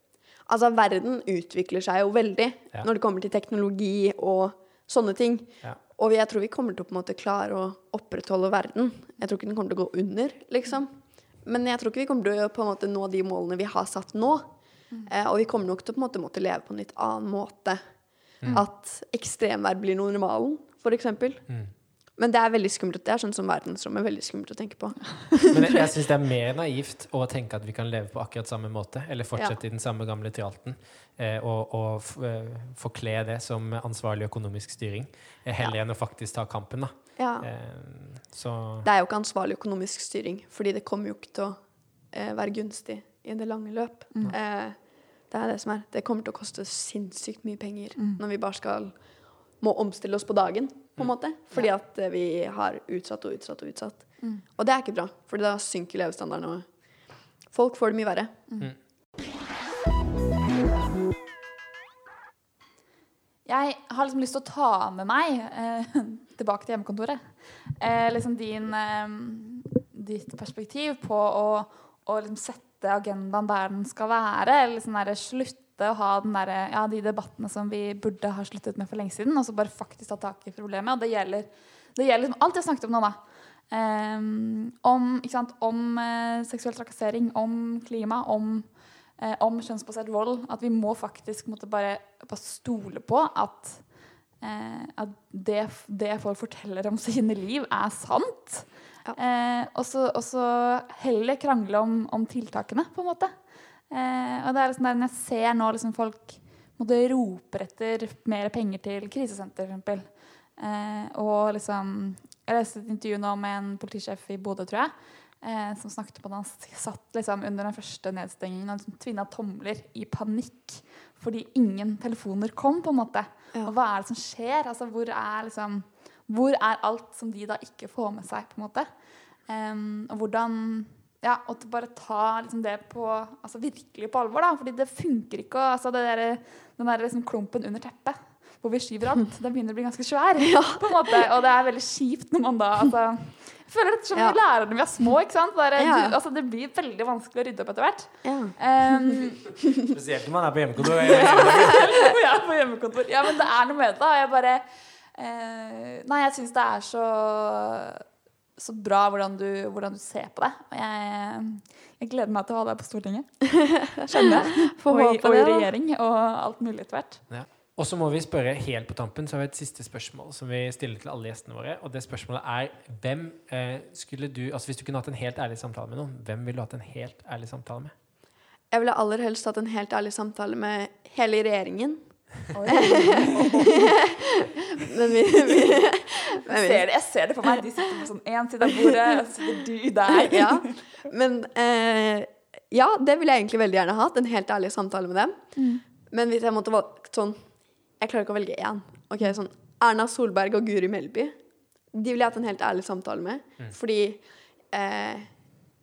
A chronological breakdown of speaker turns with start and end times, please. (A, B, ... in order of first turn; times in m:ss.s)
0:00.5-0:10.9 A
0:11.4-0:14.5 A
0:15.0-0:17.8 A
0:18.4-0:21.4 A
0:22.2-0:25.9 A
0:25.5-0:38.9 B
0:37.2-0:37.5 A
0:38.8-0:41.6 A
0:42.1-0:44.8 A
0:45.3-0:48.9 A
0:49.6-0:56.7 A
0:57.5-0:58.4 A
1:03.4-1:23.2 C
1:23.7-1:33.8 C
1:34.4-1:43.3 C
1:43.9-2:08.9 C
2:09.5-2:29.5 C
2:20.4-2:21.0 A
2:25.8-2:26.2 A
2:28.2-2:28.5 A
2:29.9-2:32.0 B
2:31.0-2:38.0 C
2:31.1-2:31.9 A
2:38.6-2:47.2 C
2:43.8-2:45.7 A
2:47.3-2:57.9 B
2:58.7-3:02.0 A
3:02.5-3:03.9 C
3:02.6-3:06.8 A
3:06.2-3:10.7 C
3:08.7-3:09.0 A
3:10.1-3:15.4 A
3:15.6-3:15.8 C
3:16.1-3:17.4 A
3:18.0-3:21.4 A
3:21.9-3:25.3 A